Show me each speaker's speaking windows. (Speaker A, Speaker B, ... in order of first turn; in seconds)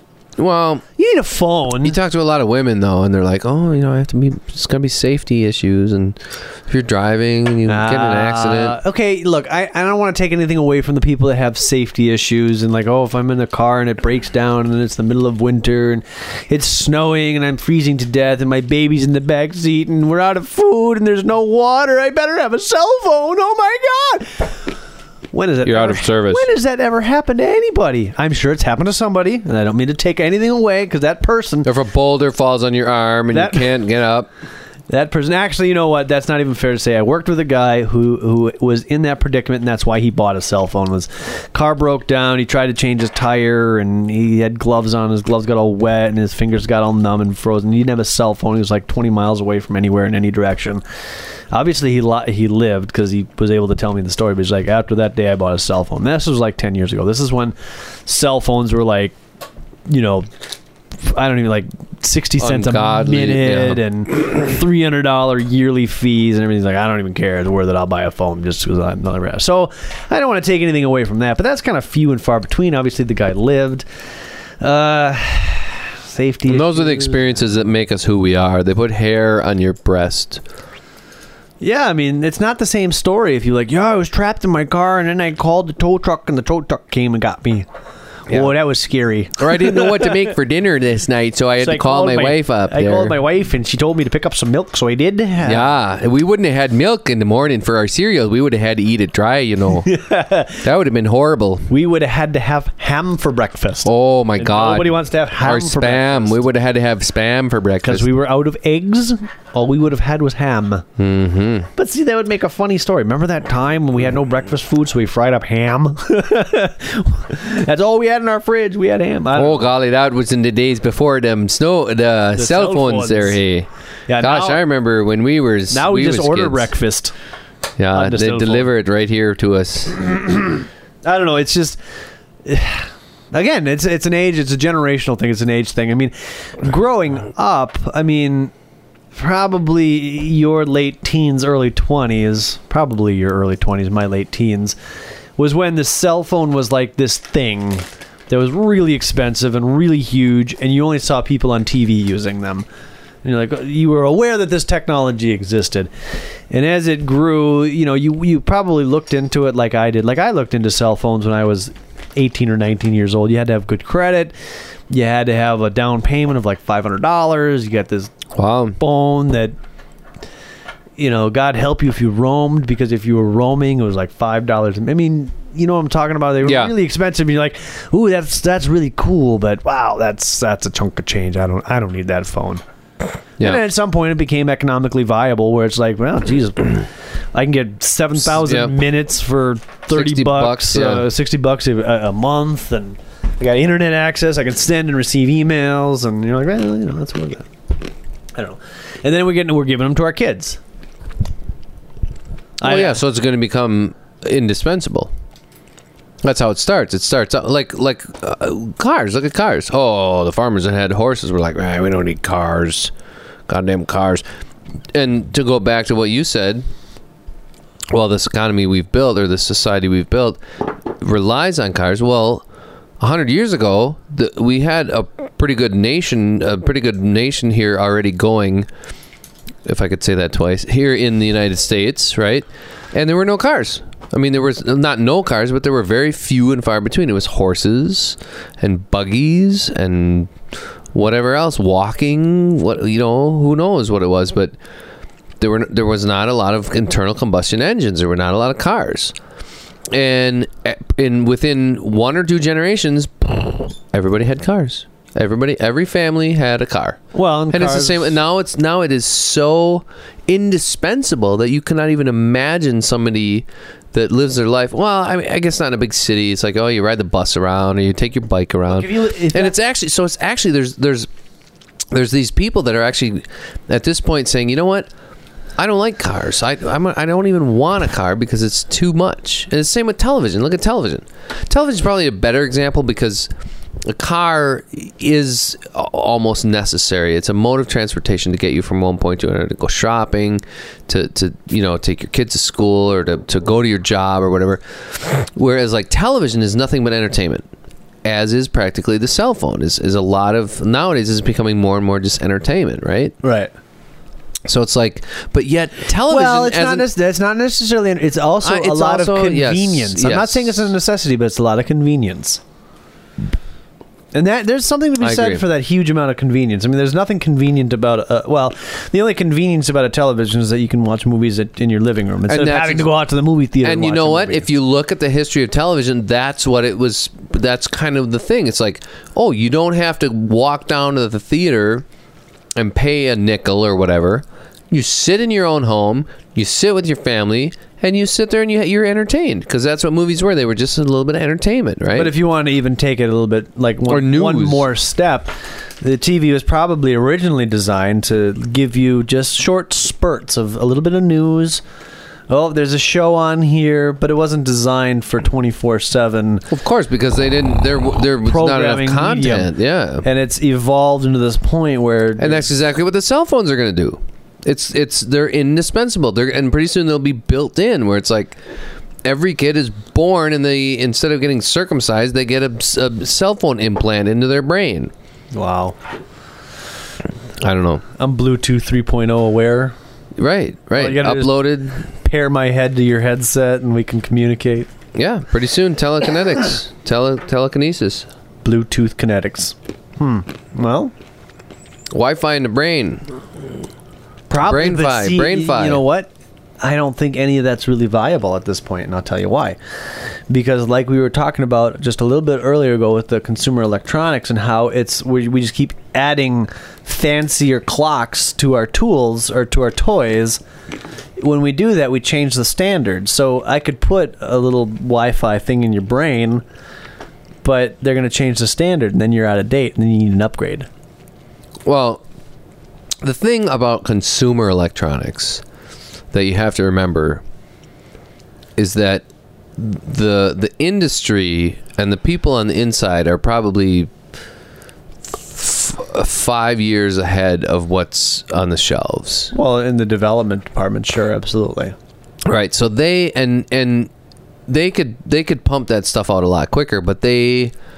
Speaker A: 0.4-0.8, 1.8-8.8, 25.6-26.5, 31.6-34.3, 62.4-63.8, 76.5-80.4, 89.4-93.2, 95.4-99.9, 100.6-101.7, 103.8-108.1, 111.0-111.7, 119.3-123.7, 124.2-126.7, 127.8-130.0, 168.3-168.8, 176.4-176.7, 188.3-188.7, 189.9-191.1, 202.6-205.1, 206.2-212.9, 213.5-214.2, 214.9-216.6, 217.9-220.4, 221.0-222.4, 223.0-228.7, 229.7-240.3, 240.9-244.5, 245.4-249.2, 249.9-257.0, 257.5-271.1, 271.9-274.9, 275.6-283.3, 283.9-297.5, 298.0-303.1, 304.5-306.9, 308.4-310.7, 315.0-315.4, 322.3-322.9, 323.6-331.9, 332.6-342.1, 343.9-344.7, 356.5-360.0, 362.2-368.4, 369.0-374.9, 377.4-377.8, 380.2-381.9, 384.9-388.1, 391.9-393.2, 394.4-395.8, 421.6-422.0, 423.0-425.4, 426.1-427.2, 428.6-429.0, 429.6-433.9, 435.1-439.3, 442.2-443.9, 444.5-447.5
Speaker B: 1.0-2.0, 7.7-24.7, 25.3-31.7, 33.3-33.8, 34.9-50.8, 51.5-57.5, 58.1-59.2, 59.9-60.3, 60.9-73.8, 74.6-77.4, 81.6-87.7, 88.3-90.2, 91.6-95.7, 99.8-100.7, 101.7-106.4, 107.8-110.8, 111.8-119.7, 122.4-123.4, 124.1-124.6, 125.7-127.1, 127.9-128.7, 131.0-131.8, 132.4-138.5, 139.1-144.8, 145.4-152.7, 153.2-155.9, 156.5-164.3, 164.9-168.1, 168.8-169.5, 171.0-182.6, 183.4-197.5, 198.3-200.6, 202.6-203.0, 257.1-258.2, 268.7-269.6, 303.2-303.5, 306.1-312.4, 314.1-324.5, 342.0-351.6, 352.3-356.5, 358.2-359.5, 360.0-362.5, 375.3-375.8, 378.0-379.8, 380.8-384.7, 388.4-390.9, 394.3-396.1, 396.6-399.6, 400.3-410.4, 411.2-416.4, 417.4-420.7, 439.3-441.8